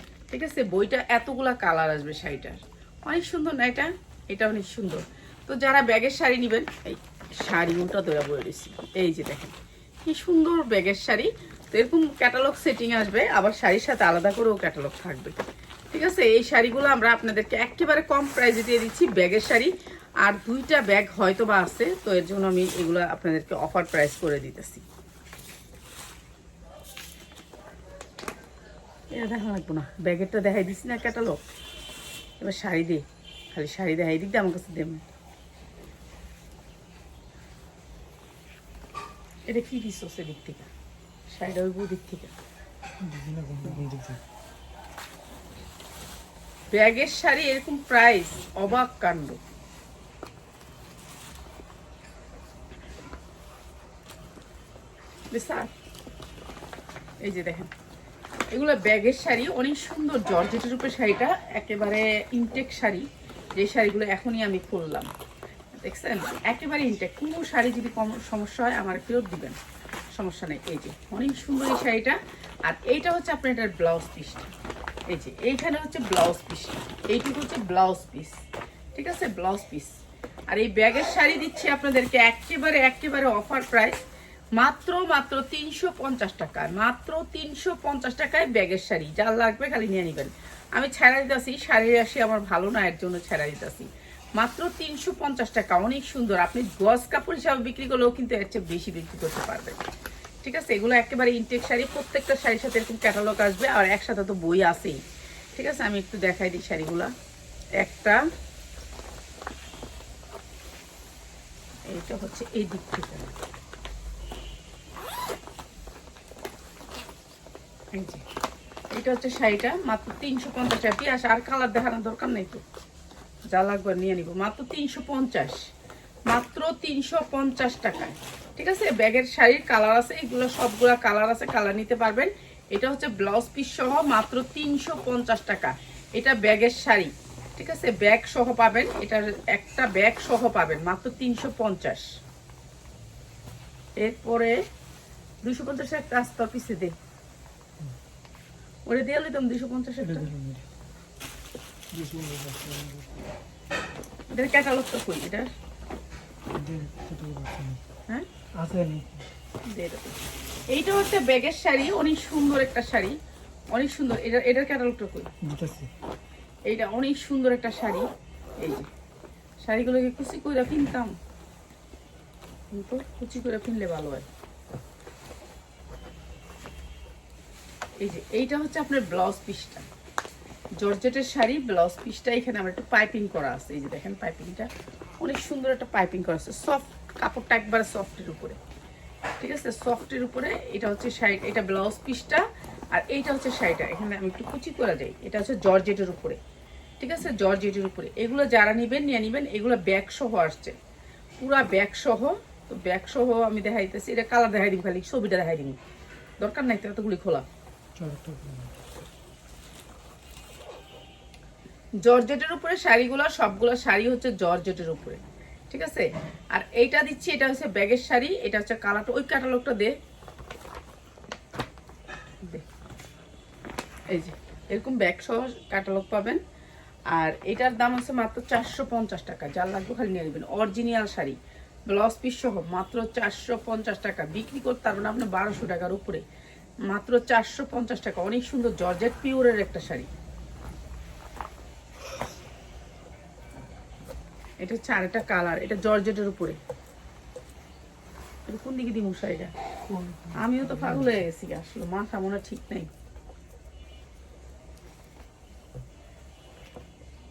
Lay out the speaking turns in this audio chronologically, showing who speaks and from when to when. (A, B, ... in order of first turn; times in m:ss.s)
0:00.3-0:09.5 A
0:10.0-0:15.4 A
0:15.9-0:24.8 A
0:29.1-0:31.4 A
0:32.4-0:35.0 A
0:39.5-0:40.7 A
0:41.3-0:42.3 A
0:43.0-0:44.2 B
0:46.7-0:49.4 A
0:55.3-0:55.7 A
0:57.2-0:57.7 A
0:58.5-1:03.0 A
1:03.6-1:05.1 A
1:05.8-1:09.6 A
1:10.2-1:14.5 A
1:15.1-1:18.3 A
1:18.9-1:19.9 A
1:20.5-1:24.0 A
1:24.6-1:39.8 A
1:40.4-1:45.0 A
1:45.6-1:47.1 A
1:47.8-1:48.2 A
1:51.9-1:53.3 A
1:57.9-1:58.2 A
1:58.9-2:02.6 A
2:03.5-2:05.6 A
2:06.3-2:22.1 A
2:24.0-2:24.6 A
2:25.4-2:26.9 A
2:28.9-2:30.3 A
2:30.0-2:30.6 B
2:31.9-2:33.2 B
2:34.3-2:35.5 A
2:36.5-2:37.8 B
2:38.6-2:39.2 B
2:39.7-2:40.2 A
2:40.7-2:43.2 A
2:43.7-2:45.3 A
2:45.4-2:45.9 B
2:46.7-2:48.0 A
2:48.6-2:48.9 A
2:49.6-2:51.1 A
2:52.7-2:54.2 A
2:58.0-2:59.9 A
3:00.8-3:04.7 A
3:05.2-3:08.6 A
3:09.4-3:16.4 A
3:17.0-3:20.8 A
3:21.4-3:25.8 A
3:26.4-3:27.4 A
3:28.0-3:28.8 B
3:32.0-3:35.2 A
3:35.7-3:40.0 A
3:44.1-3:46.4 A
3:47.1-3:51.4 A
3:51.9-3:56.2 A
3:56.9-4:00.1 A
4:04.6-4:06.6 A
4:08.5-4:09.5 A
4:09.9-4:11.2 B
4:10.4-4:12.9 A